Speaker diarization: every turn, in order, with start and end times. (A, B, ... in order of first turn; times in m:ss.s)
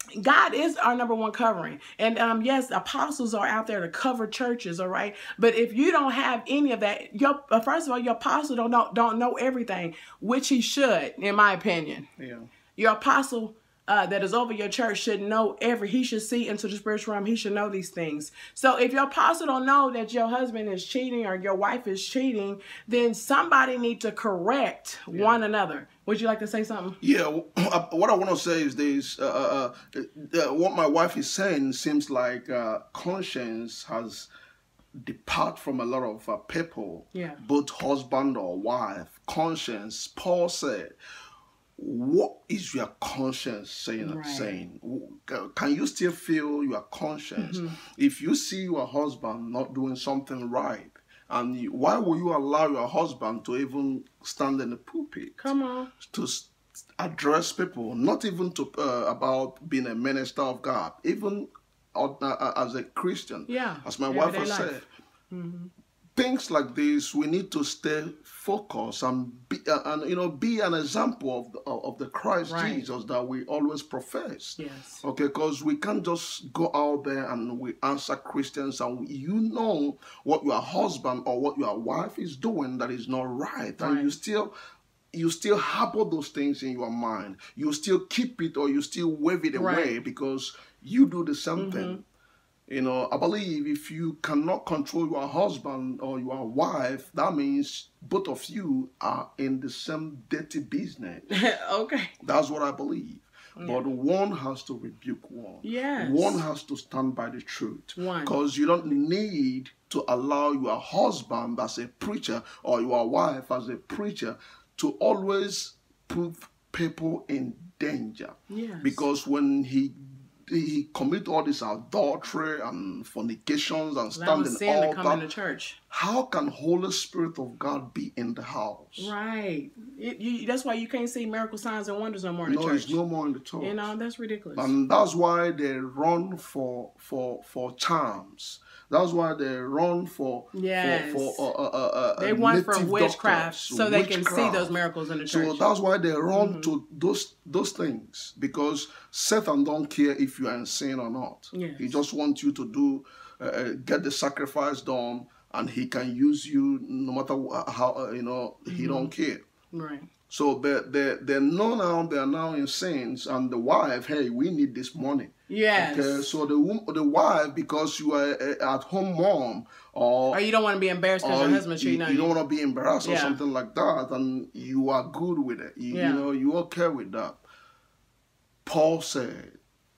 0:00.2-0:12.1 A
0:12.2-0:12.5 B
0:12.8-0:27.0 A
0:25.1-0:25.4 B
0:27.0-0:34.3 B
0:35.0-0:41.0 B
0:37.1-0:37.4 A
0:41.8-1:04.9 B
0:44.0-0:44.6 A
0:47.4-0:47.8 A
0:55.4-0:55.9 A
1:03.5-1:05.7 A
1:06.2-1:24.5 B
1:12.5-1:12.9 A
1:14.6-1:15.0 A
1:23.8-1:24.2 A
1:25.1-1:32.0 B
1:29.5-1:30.0 A
1:31.6-1:32.0 A
1:32.7-1:41.3 B
1:41.3-1:42.2 A
1:42.2-2:05.2 B
1:43.6-1:43.8 A
1:45.6-1:46.4 A
1:48.0-1:48.4 A
1:58.5-1:59.0 A
2:04.2-2:05.8 A
2:05.9-2:09.1 B
2:09.0-2:13.0 A
2:12.4-2:13.9 B
2:13.6-2:14.7 A
2:14.6-2:24.8 B
2:20.5-2:21.5 A
2:22.2-2:25.7 A
2:25.3-2:39.4 B
2:26.3-2:26.7 A
2:31.5-2:32.0 A
2:38.7-2:39.1 A
2:39.7-2:40.1 A
2:40.3-2:50.4 B
2:45.5-2:46.4 A
2:50.3-2:52.4 A
2:51.2-2:57.4 B
2:53.0-2:53.4 A
2:55.9-2:56.3 A
2:58.6-2:59.6 B